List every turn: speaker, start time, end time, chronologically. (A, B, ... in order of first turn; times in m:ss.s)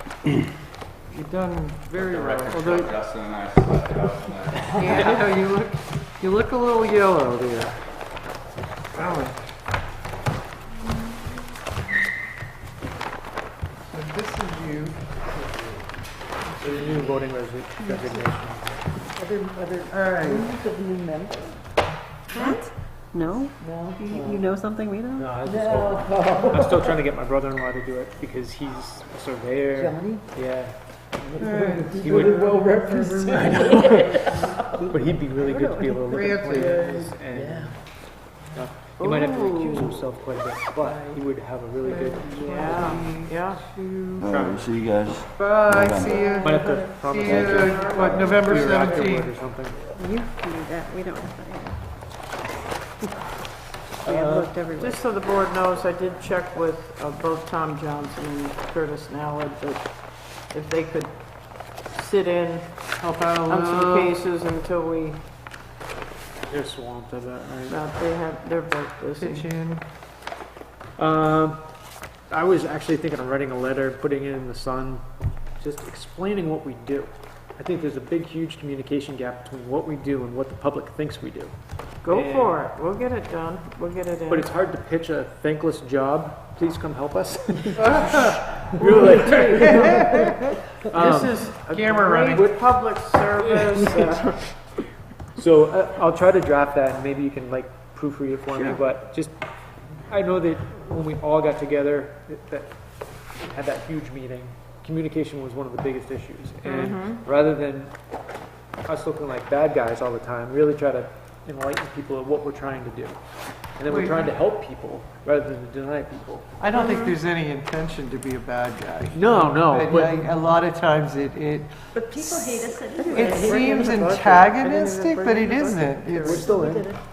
0:01.1-0:02.9 A
0:02.0-0:05.2 B
0:04.7-0:07.9 A
0:08.9-0:09.6 A
0:13.9-0:15.2 A
0:16.6-0:18.9 C
0:17.8-0:18.3 D
0:19.1-0:21.6 D
0:19.9-0:20.5 A
0:22.3-0:26.9 D
0:25.1-0:31.2 C
0:29.7-0:30.3 D
0:31.2-0:37.8 D
0:31.4-0:33.8 A
0:31.9-0:32.4 C
0:33.2-0:42.8 C
0:36.1-0:37.1 A
0:39.0-0:39.9 E
0:41.8-0:44.3 A
0:42.2-0:43.1 D
0:42.4-0:43.7 E
0:44.2-0:46.4 F
0:44.2-0:44.8 C
0:45.4-0:49.3 A
0:46.2-0:47.0 D
0:46.4-0:49.8 C
0:47.2-0:47.7 F
0:47.6-0:48.6 E
0:47.7-0:49.0 D
0:49.9-0:51.8 D
0:54.0-0:54.6 C
0:54.0-0:55.1 D
0:54.7-1:05.2 E
1:03.0-1:04.2 A
1:06.4-1:07.8 C
1:07.7-1:09.5 E
1:09.2-1:09.8 A
1:11.0-1:11.7 C
1:12.3-1:15.0 C
1:15.6-1:22.7 C
1:22.0-1:24.5 E
1:24.3-1:30.0 C
1:27.9-1:28.4 A
1:28.7-1:30.4 D
1:29.5-1:30.4 A
1:30.8-1:31.4 C
1:30.9-1:34.6 E
1:31.0-1:32.5 A
1:32.3-1:34.8 C
1:35.3-1:39.4 C
1:40.1-1:48.0 C
1:46.6-1:47.2 E
1:48.8-1:56.5 C
1:53.9-1:54.4 A
1:56.6-2:01.8 A
1:56.7-1:57.1 E
1:59.1-2:00.3 C
2:01.9-2:04.0 D
2:02.9-2:06.5 E
2:03.1-2:06.6 A
2:06.2-2:06.9 C
2:06.3-2:07.0 D